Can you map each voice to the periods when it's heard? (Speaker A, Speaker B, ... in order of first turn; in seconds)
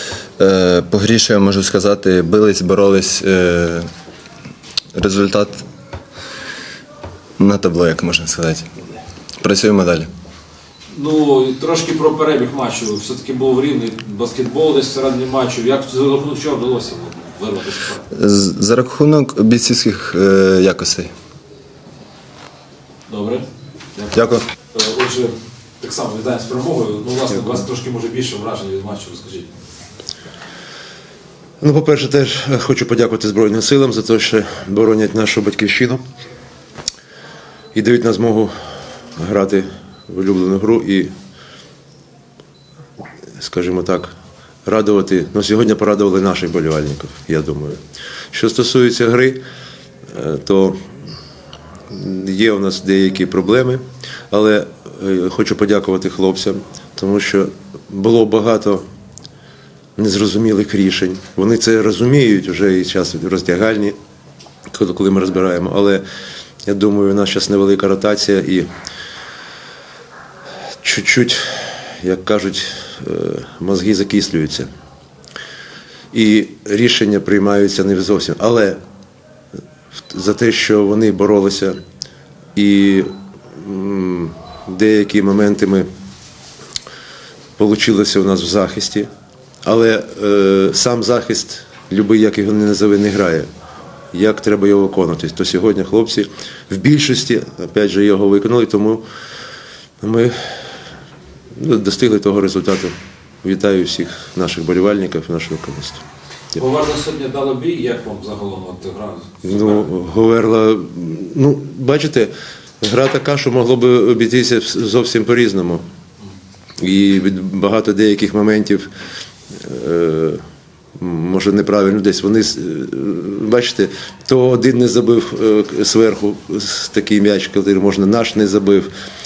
Speaker A: 0.4-3.9, 4.9-5.6, 7.4-8.8, 9.4-10.1, 18.1-21.1, 24.1-24.4
Speaker B: 10.9-18.0, 23.1-24.2, 24.7-29.5, 106.5-109.9
Speaker C: 31.6-36.0, 37.7-38.5, 39.2-41.1, 43.4-44.1, 44.6-47.8, 48.3-49.4, 50.1-50.8, 51.9-58.8, 60.0-64.0, 64.7-66.0, 66.6-68.7, 70.8-74.7, 76.1-78.8, 80.1-81.8, 82.5-85.9, 87.6-89.1, 89.6-93.5, 94.1-99.0, 100.0-100.7, 101.5-106.0, 109.4-115.8, 116.8-118.9, 119.5-120.4, 121.0-128.9